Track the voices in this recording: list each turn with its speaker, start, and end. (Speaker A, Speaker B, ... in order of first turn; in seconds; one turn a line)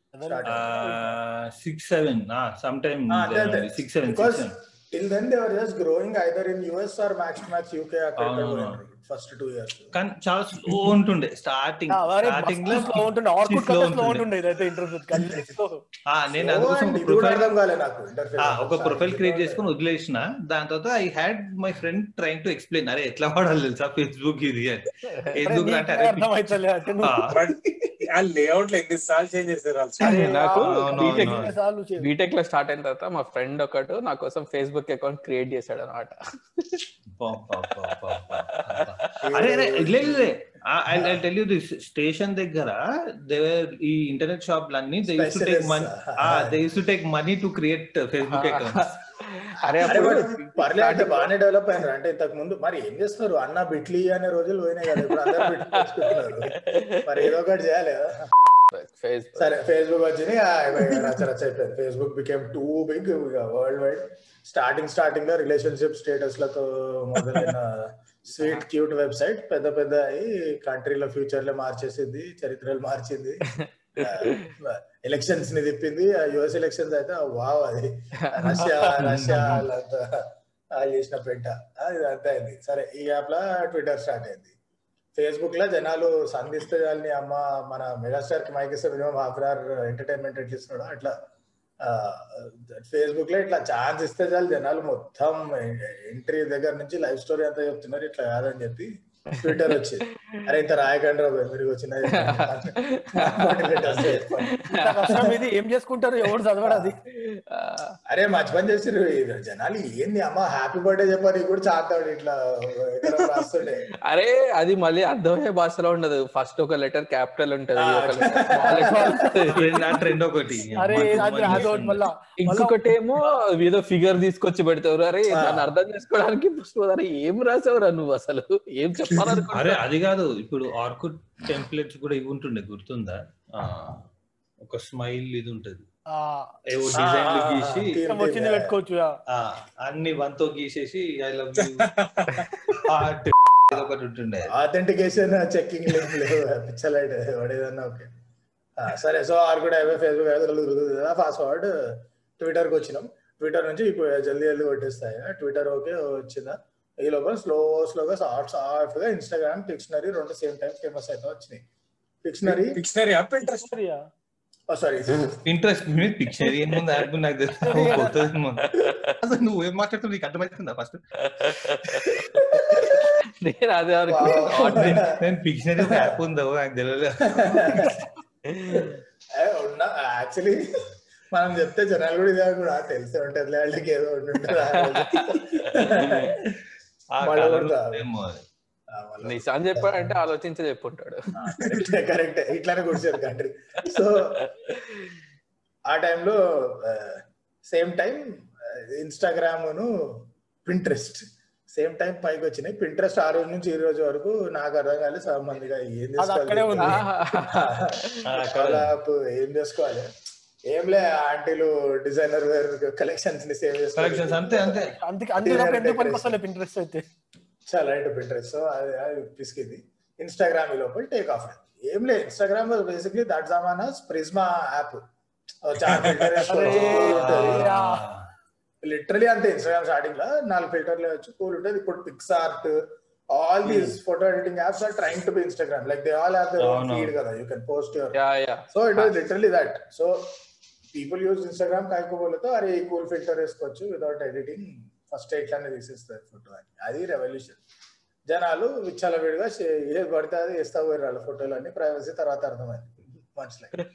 Speaker A: 0.1-1.1
Speaker B: 0.2-1.0
Speaker C: 0.4-4.6
Speaker B: 3.1-9.9
Speaker C: 8.2-8.8
Speaker C: 9.9-14.3
Speaker A: 11.9-15.8
Speaker C: 16.1-17.5
Speaker B: 16.4-19.6
Speaker C: 18.4-27.4
Speaker A: 25.3-27.3
Speaker D: 27.3-30.2
Speaker E: 30.0-36.8
Speaker A: 30.0-32.1
Speaker C: 30.6-31.5
Speaker C: 37.2-48.9
Speaker E: 37.9-39.2
Speaker B: 39.2-40.4
Speaker B: 40.9-41.2
Speaker B: 45.1-46.6
Speaker E: 48.3-51.3
Speaker B: 49.6-58.3
Speaker E: 55.8-57.3
Speaker E: 58.7-59.5
Speaker B: 59.4-73.5
Speaker E: 73.6-74.5
Speaker B: 74.0-84.5
Speaker E: 78.2-78.8
Speaker C: 79.0-79.6
Speaker B: 85.2-91.1
Speaker B: 91.8-105.4
Speaker E: 99.3-99.7
Speaker E: 102.1-105.3
Speaker A: 104.7-107.0
Speaker B: 106.6-107.0
Speaker E: 107.1-108.0
Speaker B: 108.1-113.8
Speaker E: 114.1-119.8
Speaker B: 117.8-119.4
Speaker A: 118.6-119.3
Speaker C: 119.5-122.0
Speaker A: 120.8-122.8
Speaker E: 121.0-121.5
Speaker E: 122.4-129.8
Speaker B: 125.3-125.7
Speaker C: 129.5-134.0
Speaker C: 134.6-135.8
Speaker A: 136.1-136.5
Speaker C: 136.7-138.0
Speaker B: 136.9-138.7
Speaker A: 138.1-139.2
Speaker C: 139.3-141.9
Speaker D: 141.6-142.8
Speaker C: 142.8-144.5
Speaker B: 144.5-148.1
Speaker B: 148.8-161.6
Speaker B: 162.2-162.8
Speaker D: 162.4-163.7
Speaker A: 163.6-164.0
Speaker B: 164.7-165.4
Speaker C: 165.4-172.1
Speaker A: 167.6-168.3
Speaker E: 168.6-169.1
Speaker E: 171.2-175.1
Speaker B: 172.5-173.1
Speaker B: 174.1-175.1
Speaker C: 174.6-178.0
Speaker B: 175.8-176.2
Speaker B: 177.3-178.1
Speaker E: 178.5-178.9
Speaker B: 178.7-180.6
Speaker B: 181.3-186.5
Speaker E: 184.5-185.9
Speaker C: 186.0-186.4
Speaker C: 187.1-188.4
Speaker B: 187.2-188.0
Speaker B: 188.9-190.2
Speaker E: 189.2-191.3
Speaker B: 191.3-194.4
Speaker E: 194.2-195.1
Speaker B: 195.9-210.1
Speaker A: 206.2-207.0
Speaker E: 206.8-208.2
Speaker C: 208.2-208.9
Speaker B: 210.7-214.8
Speaker C: 213.9-214.9
Speaker A: 215.0-217.0
Speaker B: 215.4-216.4
Speaker B: 217.7-225.0
Speaker B: 225.6-227.7
Speaker D: 225.9-226.5
Speaker A: 226.5-228.0
Speaker C: 226.6-228.3
Speaker B: 228.8-232.7
Speaker B: 233.3-238.2
Speaker E: 233.7-233.9
Speaker C: 236.6-237.1
Speaker E: 238.1-239.1
Speaker B: 238.7-240.3
Speaker B: 240.9-247.6
Speaker B: 248.3-253.8